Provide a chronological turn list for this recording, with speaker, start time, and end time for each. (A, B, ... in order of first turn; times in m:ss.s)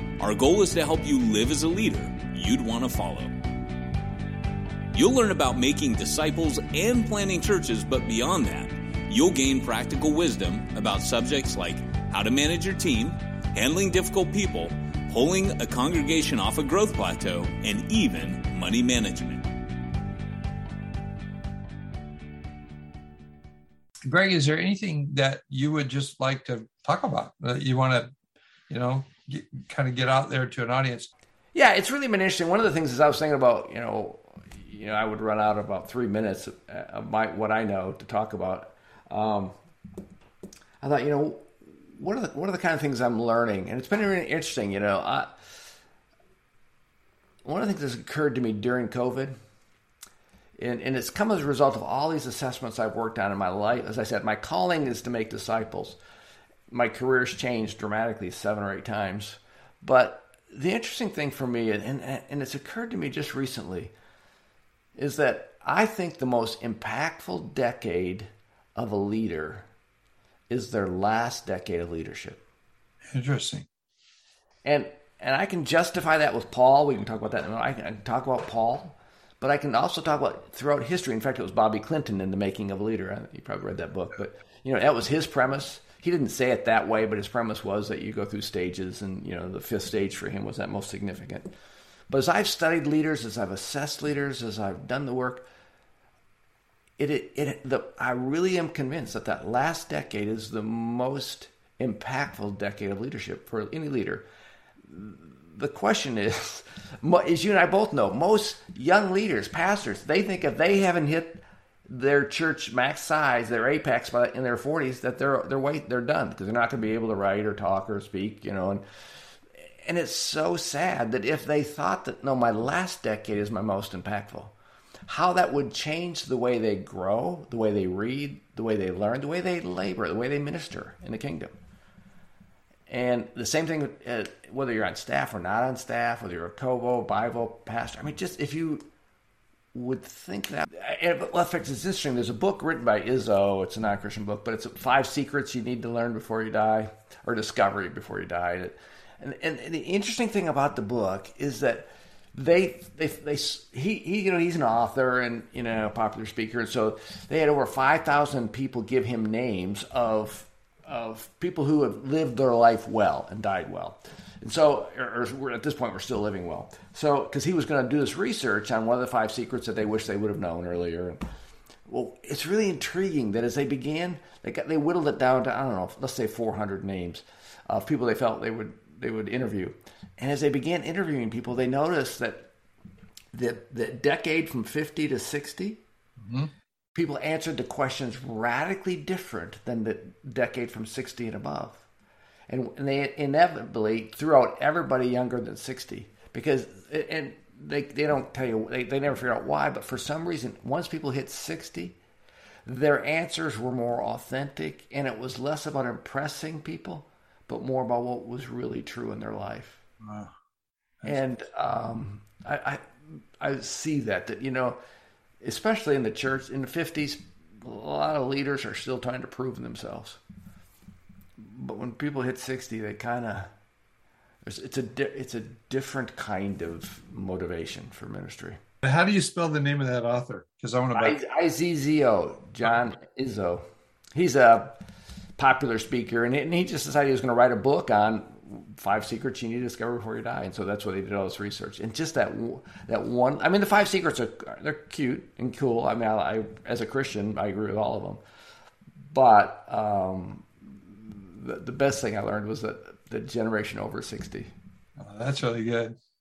0:00.2-0:03.3 A
0:04.9-0:19.5 A
0:24.1-0:28.1 B
0:28.7-0:31.1 B
0:31.5-0:39.5 C
0:40.8-0:45.4 C
0:47.4-0:49.3 C
0:50.6-0:56.0 C
0:56.7-1:03.9 C
1:05.0-1:09.7 C
1:10.5-1:12.4 C
1:13.1-1:13.7 B
1:14.6-1:31.5 C
1:32.1-1:35.5 C
1:37.0-1:44.2 C
1:44.9-1:58.8 C
1:59.6-2:04.5 C
2:05.1-2:11.5 C
2:12.9-2:18.8 C
2:19.7-2:51.2 C
2:51.9-3:02.5 C
3:03.3-3:05.8 C
3:06.2-3:06.5 B
3:06.9-3:11.9 C
3:12.5-3:22.0 C
3:22.6-3:29.8 C
3:30.0-3:30.3 B
3:31.0-3:34.8 C
3:35.4-3:40.2 C
3:41.4-3:43.5 C
3:44.4-3:48.6 C
3:48.8-3:51.2 B
3:50.9-3:53.6 C
3:54.2-3:54.8 C
3:55.4-4:08.2 C
4:09.0-4:14.5 C
4:15.0-4:16.0 B